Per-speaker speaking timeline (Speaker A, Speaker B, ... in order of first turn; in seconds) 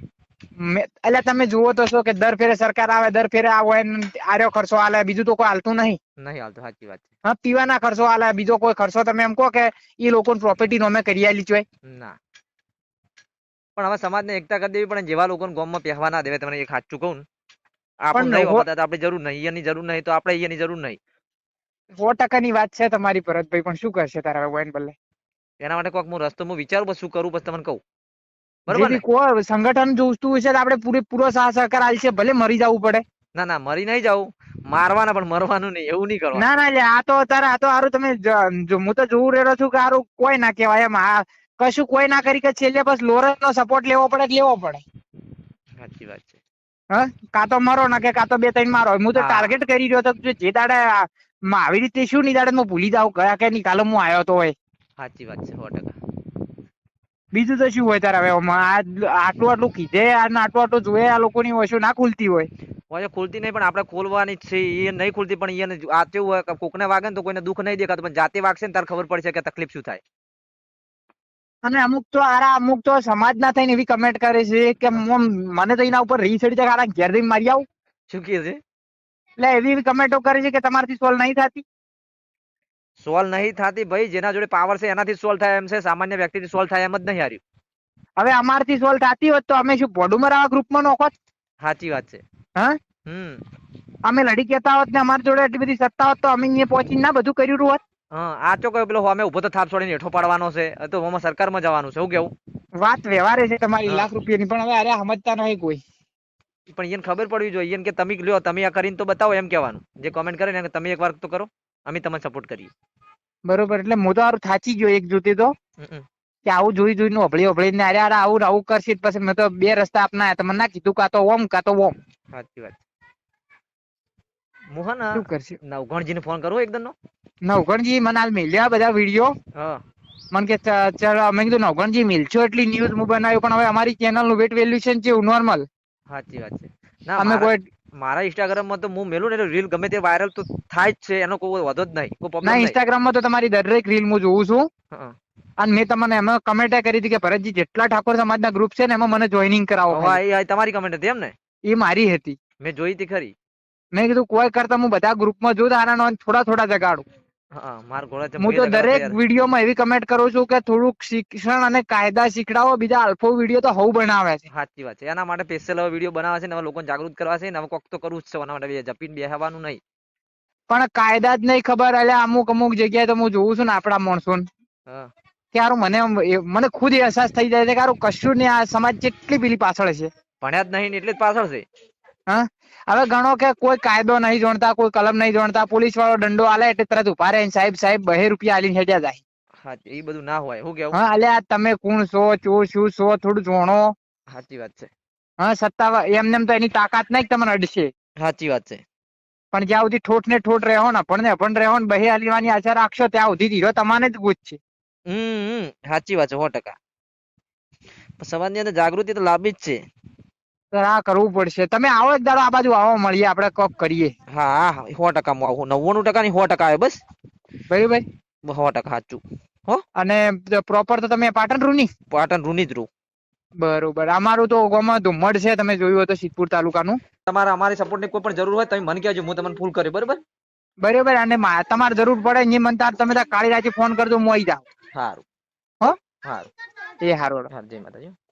Speaker A: 0.6-6.0, 7.3-11.7, 18.1-18.6, 22.0-24.9, 28.7-33.0, 36.4-44.8, 46.9-54.5, 57.3-62.5, 71.7-77.6, 79.4-81.7, 88.2-91.1, 94.1-97.8, 102.8-105.8, 113.5-115.5, 116.5-121.9, 125.2-125.6, 127.4-129.3, 130.3-135.7, 137.2-137.6, 142.4-144.7, 145.6-150.2, 151.7-152.4, 153.9-157.0, 158.4-164.4, 170.7-174.4, 175.5-180.1, 182.3-189.2, 190.9-193.9, 195.4-197.9, 199.5-204.6, 210.7-214.1, 217.7-218.0, 220.0-221.9, 223.6-227.0, 230.8-234.6, 237.0-237.5
Speaker B: 6.2-7.1, 11.9-12.2, 13.8-17.2, 18.1-21.0, 25.6-27.8, 28.7-29.0, 33.4-36.5, 45.8-46.4, 49.1-49.5, 55.0-56.0, 62.9-70.0, 78.1-78.6, 83.0-87.4, 91.6-92.2, 93.1-93.4, 98.1-102.3, 106.7-112.7, 115.8-116.0, 122.3-122.8, 124.7-126.9, 136.1-142.8, 149.9-151.3, 152.6-153.3, 157.5-159.2, 164.5-169.8, 180.4-181.6, 189.6-191.0, 194.3-194.9, 198.2-198.8, 205.1-206.8, 208.2-209.8, 214.3-217.0, 218.5-219.8, 222.1-222.9, 227.3-230.2, 234.9-235.2, 237.5-238.2